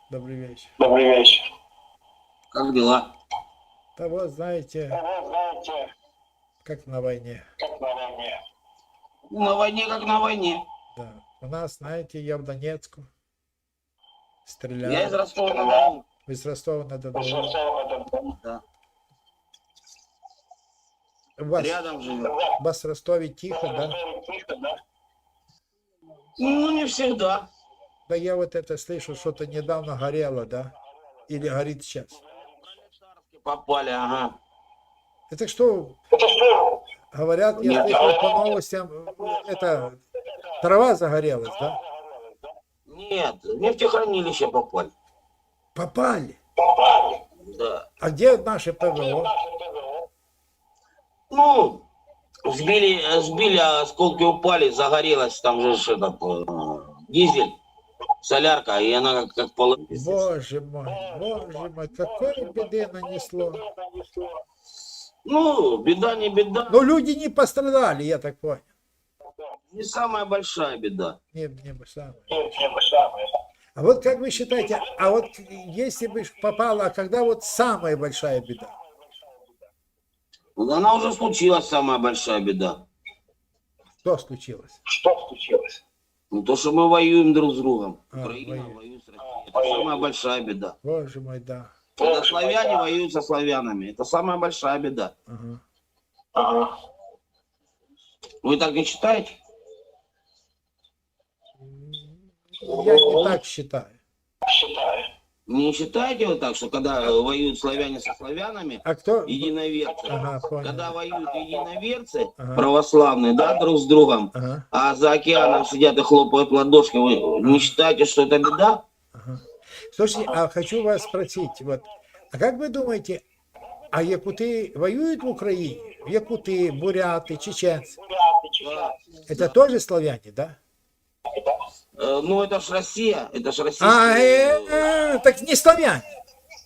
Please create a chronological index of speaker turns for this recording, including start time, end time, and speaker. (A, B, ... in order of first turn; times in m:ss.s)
0:00.1-0:00.7 A
0:00.8-0:01.4 B
0:02.5-0:03.1 C
0:04.0-0:05.0 A
0:05.1-0:05.8 B
0:06.6-0:07.4 A
0:07.7-0:08.4 B
0:09.3-0:10.6 C
0:10.9-0:13.1 A
0:14.4-0:15.2 A
0:14.8-0:16.0 C
0:16.2-0:17.6 A
0:17.5-0:18.2 B
0:18.2-0:18.6 C
0:21.4-0:21.9 A
0:21.6-0:22.4 C
0:22.6-0:24.0 A
0:23.8-0:24.7 B
0:26.4-0:27.5 C
0:28.1-0:30.7 A
0:31.3-0:32.1 A
0:32.2-0:34.4 C
0:35.3-0:36.0 A
0:36.3-0:36.6 B
0:37.1-0:40.0 A
0:37.6-0:38.2 C
0:40.6-0:41.8 A
0:42.9-0:44.9 C
0:45.7-0:46.4 A
0:47.4-0:47.8 C
0:48.0-0:49.3 A
0:51.3-0:51.9 C
0:52.4-0:57.6 C
0:58.2-1:00.2 C
0:59.9-1:03.6 A
1:03.8-1:04.3 B
1:05.2-1:06.8 C
1:06.7-1:08.7 A
1:09.7-1:11.2 C
1:11.3-1:12.4 A
1:12.5-1:13.2 B
1:13.8-1:18.7 A
1:20.6-1:22.8 C
1:24.0-1:24.8 A
1:25.0-1:25.7 B
1:26.3-1:30.8 C
1:28.1-1:28.8 A
1:30.8-1:31.7 A
1:32.0-1:35.1 C
1:35.3-1:35.6 A
1:36.4-1:36.7 B
1:38.4-1:39.4 C
1:41.6-1:44.0 A
1:42.8-1:43.3 B
1:44.5-1:45.0 B
1:45.5-1:58.8 C
1:48.8-1:49.5 A
1:50.1-1:51.0 A
1:52.4-1:52.6 A
1:54.3-1:54.6 A
1:57.4-1:57.7 A
1:59.1-2:03.2 A
2:03.9-2:08.0 A
2:08.6-2:09.5 C
2:09.3-2:10.6 A
2:12.0-2:14.9 C
2:13.8-2:16.0 A